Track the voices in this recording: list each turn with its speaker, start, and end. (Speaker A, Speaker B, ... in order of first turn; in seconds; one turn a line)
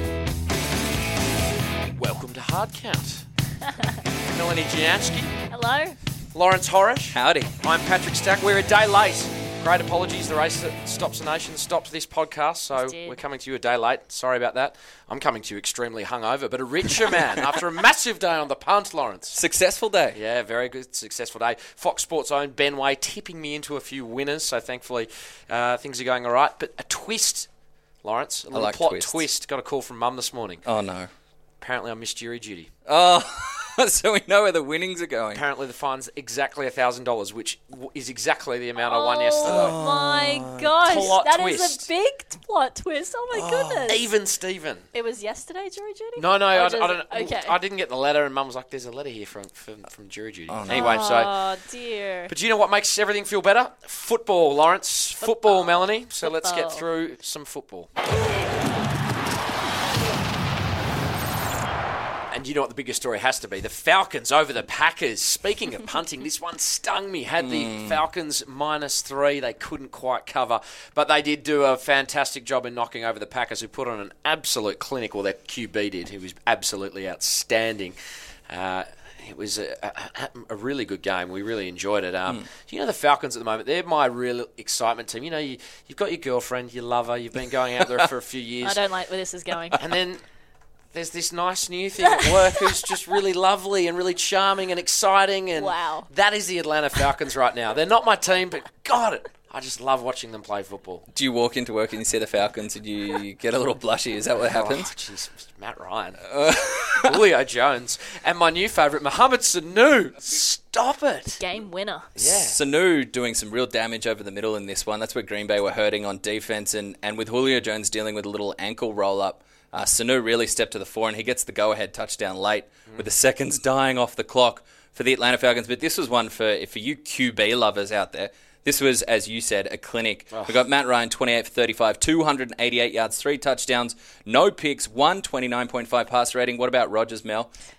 Speaker A: 1.9-3.2
Speaker A: 4.2-5.3
Speaker B: 5.5-6.0
Speaker A: 6.3-19.4
Speaker C: 7.1-7.5
Speaker B: 12.8-13.2
Speaker C: 19.3-20.2
Speaker A: 20.1-27.5
Speaker A: 28.0-30.6
Speaker C: 28.5-29.2
Speaker C: 30.6-31.1
Speaker A: 31.6-32.7
Speaker C: 32.9-35.4
Speaker A: 35.3-39.8
Speaker B: 38.8-44.0
Speaker C: 39.5-41.1
Speaker A: 40.8-41.9
Speaker C: 43.3-43.9
Speaker A: 43.9-44.9
Speaker B: 44.9-47.6
Speaker A: 46.2-51.3
Speaker C: 50.5-50.9
Speaker B: 50.7-52.3
Speaker A: 52.3-57.9
Speaker B: 55.2-56.8
Speaker A: 62.3-78.0
Speaker C: 67.4-68.0
Speaker A: 78.5-88.8
Speaker B: 88.6-89.8
Speaker A: 89.8-90.2
Speaker A: 90.9-101.0
Speaker B: 95.6-96.1
Speaker C: 101.2-104.9
Speaker A: 104.5-106.3
Speaker C: 106.3-107.2
Speaker A: 107.0-111.4
Speaker B: 111.4-112.1
Speaker A: 112.2-112.6
Speaker C: 112.2-137.5